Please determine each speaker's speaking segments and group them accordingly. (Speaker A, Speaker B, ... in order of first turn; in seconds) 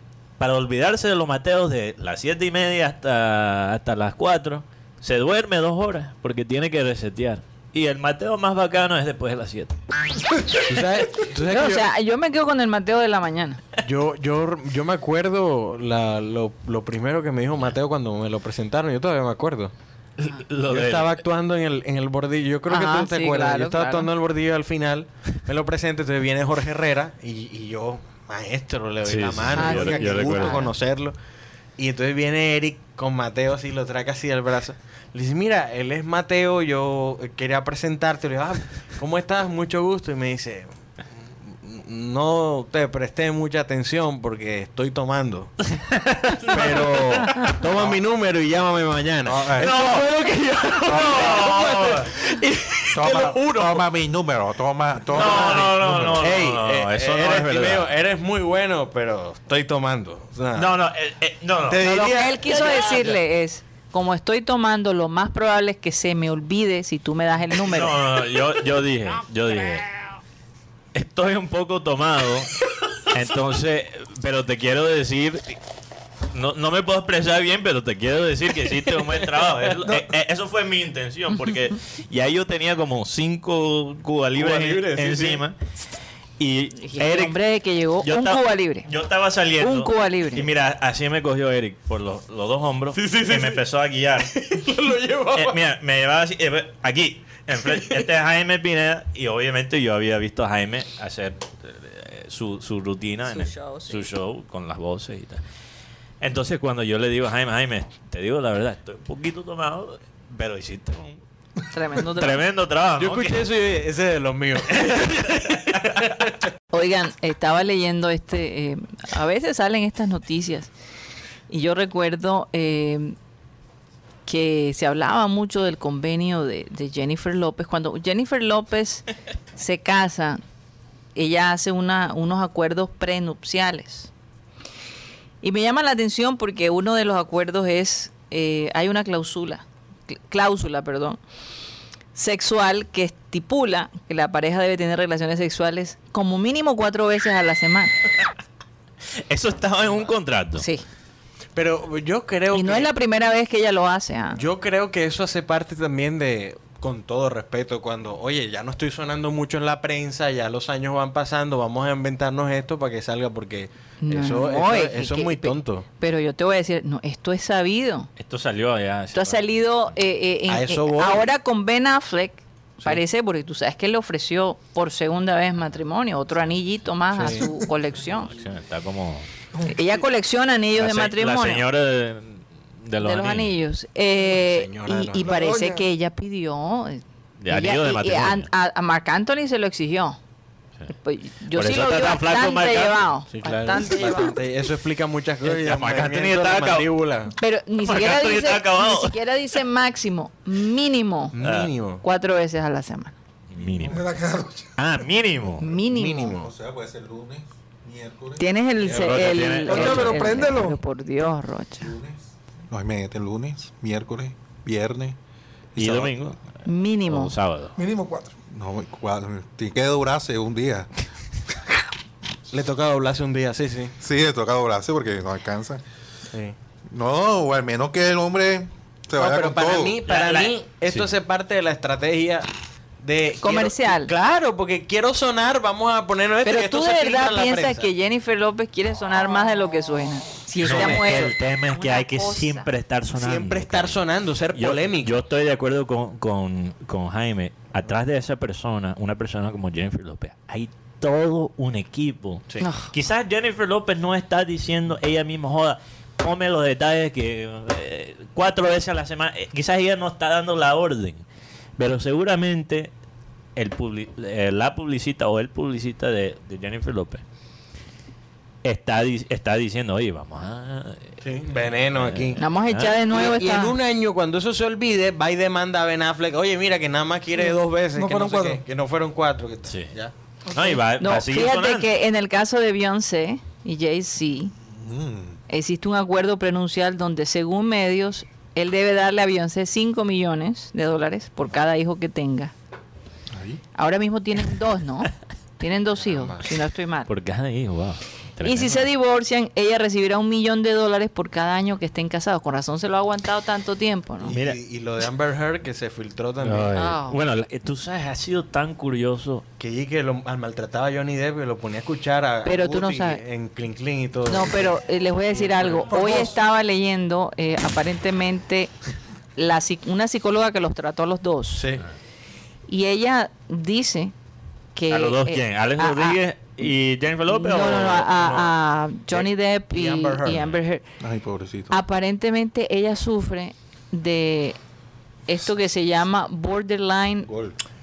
Speaker A: 0.4-9.8, 20.2-21.2, 29.0-30.7, 45.8-47.5, 49.6-53.8, 55.1-57.9, 60.5-62.0, 62.5-63.0, 67.7-69.9, 70.9-75.6, 76.3-85.6, 86.4-87.4, 88.0-94.3, 95.3-105.4, 106.2-111.2, 112.2-113.4, 114.7-116.0, 149.3-150.7, 168.2-169.5, 178.2-179.3, 180.8-183.5, 187.4-188.5, 191.5-193.1, 195.4-196.9, 197.8-199.2, 201.4-201.7, 203.5-204.0, 204.8-205.7, 208.8-210.5, 215.8-216.4, 217.1-217.8, 230.1-231.1, 240.6-244.0, 244.5-261.2, 261.8-262.9, 263.6-267.2, 268.6-273.0, 279.7-279.9, 280.5-281.9, 297.1-298.9, 304.3-304.6, 306.4-309.4, 324.9-328.1
Speaker B: 10.6-11.9, 13.8-19.7, 20.7-31.1, 31.8-40.7, 41.5-45.5, 46.5-49.8, 50.9-52.4, 55.1-60.7, 61.7-63.1, 79.7-80.0, 84.4-85.4, 93.0-93.6, 94.2-95.6, 113.0-116.3, 149.8-150.1, 151.6-152.9, 154.4-165.8, 170.5-171.3, 177.2-177.5, 184.3-185.3, 193.3-197.3, 201.3-202.0, 205.9-206.5, 222.5-223.9, 229.2-232.5, 233.0-237.9, 240.6-241.3, 243.2-245.2, 271.2-272.4, 273.0-280.1, 296.0-296.5, 304.2-306.7, 309.6-314.8, 315.5-315.9, 321.5-321.9, 328.1-328.5, 329.1-330.5
Speaker C: 11.4-13.6, 22.7-24.1, 29.5-30.7, 61.8-68.0, 86.8-88.9, 89.6-90.5, 103.3-104.1, 111.7-112.4, 116.7-120.7, 121.5-123.2, 124.3-129.0, 129.6-130.4, 131.2-134.1, 135.4-141.2, 142.2-147.9, 150.6-150.8, 152.5-154.4, 164.0-168.1, 169.1-178.3, 179.7-181.6, 183.0-190.2, 190.9-194.4, 197.4-201.3, 202.0-203.1, 205.6-206.4, 208.4-211.9, 216.7-217.3, 233.4-234.1, 236.4-242.7, 252.6-252.9, 272.4-273.8, 281.0-284.5, 285.5-292.5, 293.8-297.1, 298.4-304.3, 306.7-307.2, 312.4-313.2, 314.3-318.7, 319.4-321.6, 322.7-324.1, 324.8-326.2, 327.3-330.8, 331.7-334.6, 335.3-337.3
Speaker D: 49.2-49.7, 50.9-51.3, 52.9-56.2, 206.4-208.4, 211.8-215.2, 215.8-216.2, 218.5-220.9, 224.0-225.8, 226.9-230.0, 284.7-285.4, 293.3-293.6, 331.0-331.8, 337.3-337.6
Speaker E: 185.2-185.8, 203.9-204.7, 209.7-210.8, 217.8-218.3, 277.5-278.6, 315.9-316.3